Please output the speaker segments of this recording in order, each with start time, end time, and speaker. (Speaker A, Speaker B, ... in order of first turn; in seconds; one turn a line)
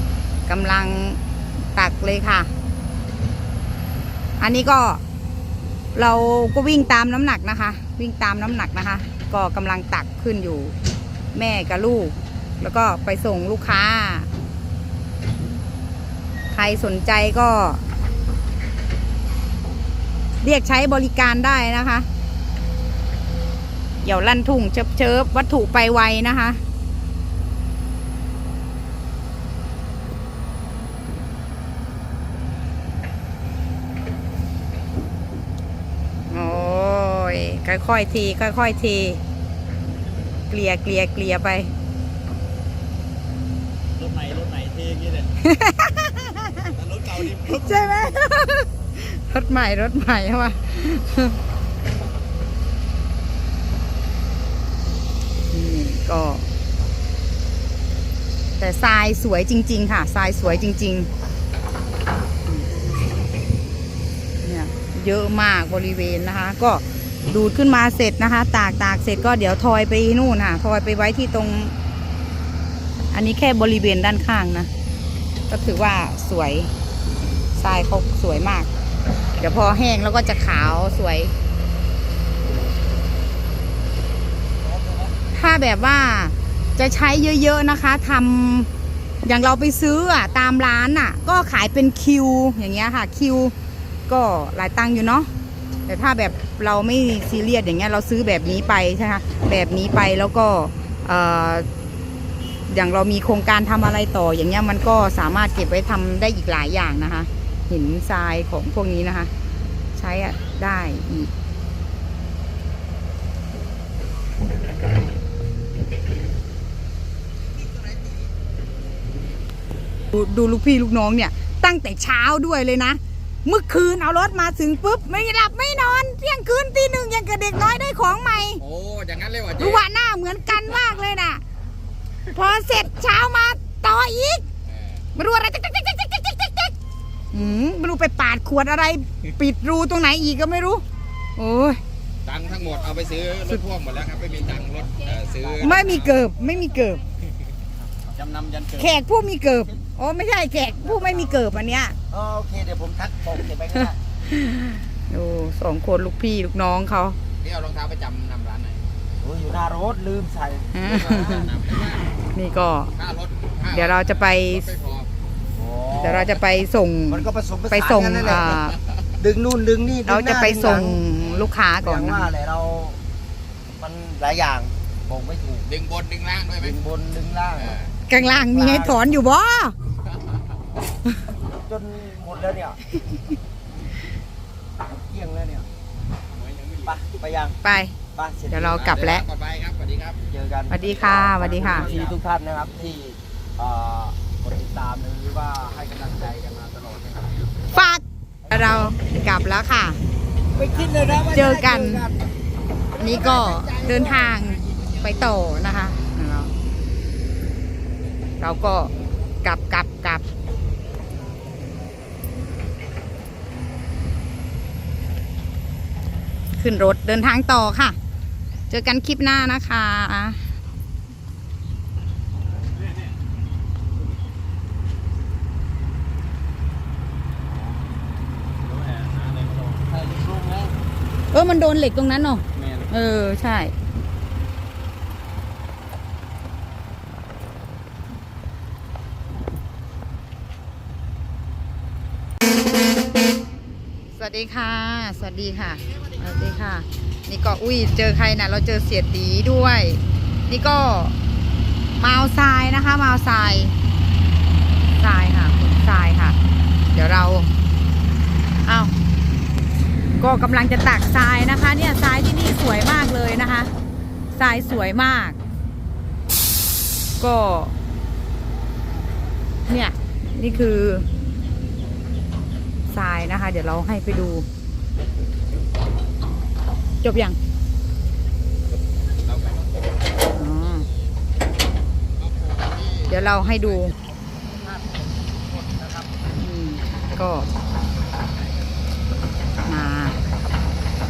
Speaker A: 0.5-1.2
Speaker A: 1.7-2.5
Speaker A: 4.4-5.0
Speaker A: 5.9-10.7
Speaker A: 11.3-14.3
Speaker A: 16.5-17.8
Speaker A: 20.4-22.1
Speaker A: 24.0-26.6
Speaker A: 36.3-39.2
Speaker A: 40.5-41.7
Speaker B: 44.0-45.2
Speaker A: 45.4-51.4
Speaker B: 46.8-47.5
Speaker A: 55.5-56.5
Speaker A: 58.6-61.1
Speaker A: 64.4-71.7
Speaker A: 73.1-74.7
Speaker A: 75.5-76.7
Speaker A: 77.5-78.7
Speaker A: 79.4-81.3
Speaker C: 84.6-85.2
Speaker A: 85.3-88.7
Speaker A: 89.2-93.5
Speaker A: 94.1-95.3
Speaker A: 95.9-101.7
Speaker A: 102.7-109.3
Speaker A: 110.0-111.3
Speaker A: 120.1-128.6
Speaker B: 128.6-129.8
Speaker A: 129.6-131.4
Speaker A: 132.3-134.4
Speaker B: 134.7-135.0
Speaker A: 135.1-136.7
Speaker A: 137.3-140.8
Speaker A: 141.4-141.8
Speaker B: 142.2-146.2
Speaker C: 144.6-145.8
Speaker A: 145.6-147.0
Speaker B: 148.1-148.9
Speaker A: 148.8-151.9
Speaker C: 152.1-153.9
Speaker A: 154.3-157.2
Speaker B: 157.4-158.8
Speaker C: 159.2-160.7
Speaker A: 160.7-161.5
Speaker B: 160.8-162.0
Speaker A: 162.3-162.9
Speaker B: 162.9-165.1
Speaker A: 163.7-164.7
Speaker C: 165.6-166.4
Speaker A: 166.0-168.8
Speaker C: 167.1-168.6
Speaker C: 169.2-171.0
Speaker A: 170.1-172.3
Speaker C: 171.8-173.0
Speaker C: 173.8-175.7
Speaker B: 175.6-176.8
Speaker C: 176.6-179.0
Speaker B: 177.6-177.9
Speaker A: 178.1-179.7
Speaker C: 181.4-182.8
Speaker C: 184.8-185.7
Speaker B: 186.3-187.0
Speaker C: 186.8-187.6
Speaker A: 187.6-187.9
Speaker C: 188.1-188.9
Speaker A: 188.5-189.2
Speaker B: 188.7-190.2
Speaker C: 190.2-197.7
Speaker A: 190.7-191.9
Speaker B: 191.6-192.1
Speaker A: 197.7-200.0
Speaker C: 198.5-198.9
Speaker C: 200.5-202.2
Speaker A: 201.3-202.1
Speaker C: 203.0-204.3
Speaker A: 203.0-206.5
Speaker A: 208.4-208.9
Speaker A: 209.4-210.2
Speaker A: 216.6-217.9
Speaker A: 218.7-220.4
Speaker B: 228.9-229.4
Speaker C: 229.7-230.7
Speaker A: 231.3-233.7
Speaker A: 244.2-251.2
Speaker A: 251.9-253.7
Speaker A: 255.0-256.4
Speaker A: 256.9-257.5
Speaker A: 258.6-258.9
Speaker A: 260.2-263.7
Speaker A: 264.3-265.4
Speaker A: 267.2-267.7
Speaker A: 269.7-271.1
Speaker A: 272.9-274.4
Speaker A: 277.0-277.4
Speaker B: 279.2-279.6
Speaker A: 280.3-280.9
Speaker B: 282.2-283.8
Speaker A: 283.1-283.9
Speaker C: 284.2-286.1
Speaker A: 286.4-287.5
Speaker A: 289.6-290.1